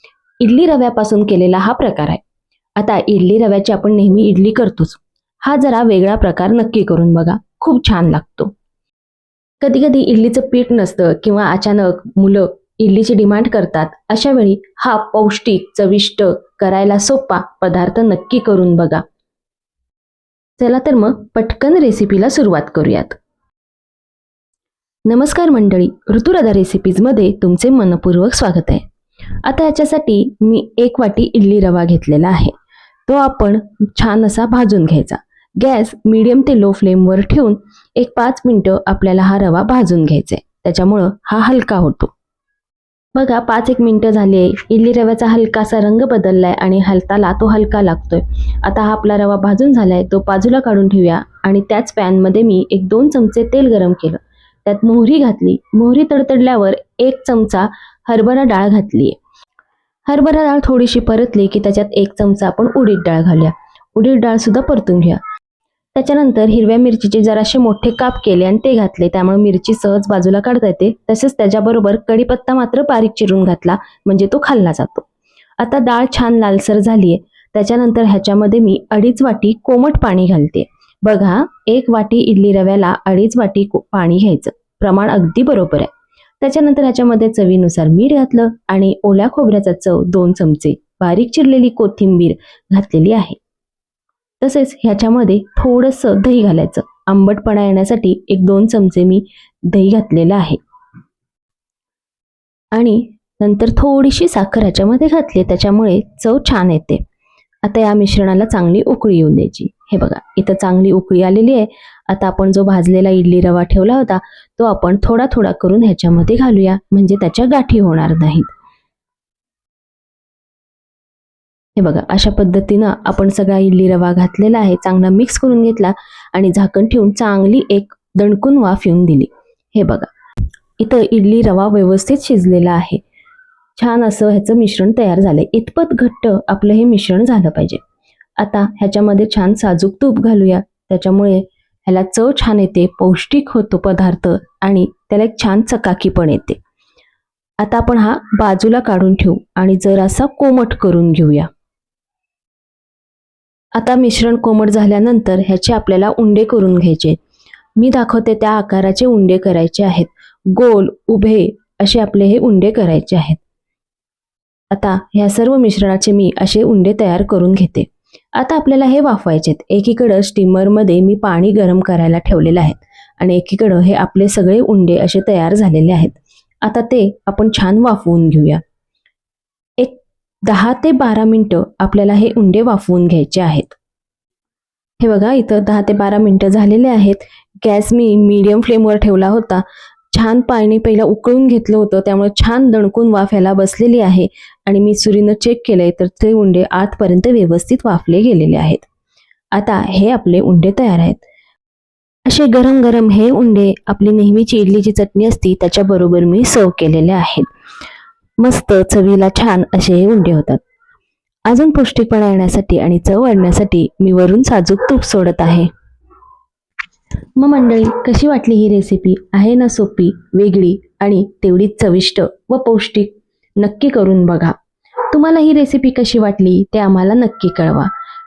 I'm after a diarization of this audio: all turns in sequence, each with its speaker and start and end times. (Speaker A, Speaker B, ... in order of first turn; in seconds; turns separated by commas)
Speaker A: 0.4-2.2, Speaker A: 2.8-8.5, Speaker A: 9.6-19.0, Speaker A: 20.6-23.2, Speaker A: 25.1-28.8, Speaker A: 29.4-32.5, Speaker A: 33.1-42.1, Speaker A: 43.1-59.2, Speaker A: 60.1-65.2, Speaker A: 66.0-75.1, Speaker A: 75.6-93.4, Speaker A: 94.4-100.6, Speaker A: 102.7-107.0, Speaker A: 107.6-118.5, Speaker A: 121.8-130.1, Speaker A: 130.8-133.0, Speaker A: 133.8-137.8, Speaker A: 138.4-146.6, Speaker A: 147.6-151.5, Speaker A: 153.8-157.2, Speaker A: 157.8-163.4, Speaker A: 164.7-178.6, Speaker A: 179.8-183.8, Speaker A: 185.0-198.9, Speaker A: 199.5-201.2, Speaker A: 202.3-207.5, Speaker A: 208.4-210.6, Speaker A: 211.5-215.7, Speaker A: 217.4-224.5, Speaker A: 225.1-227.9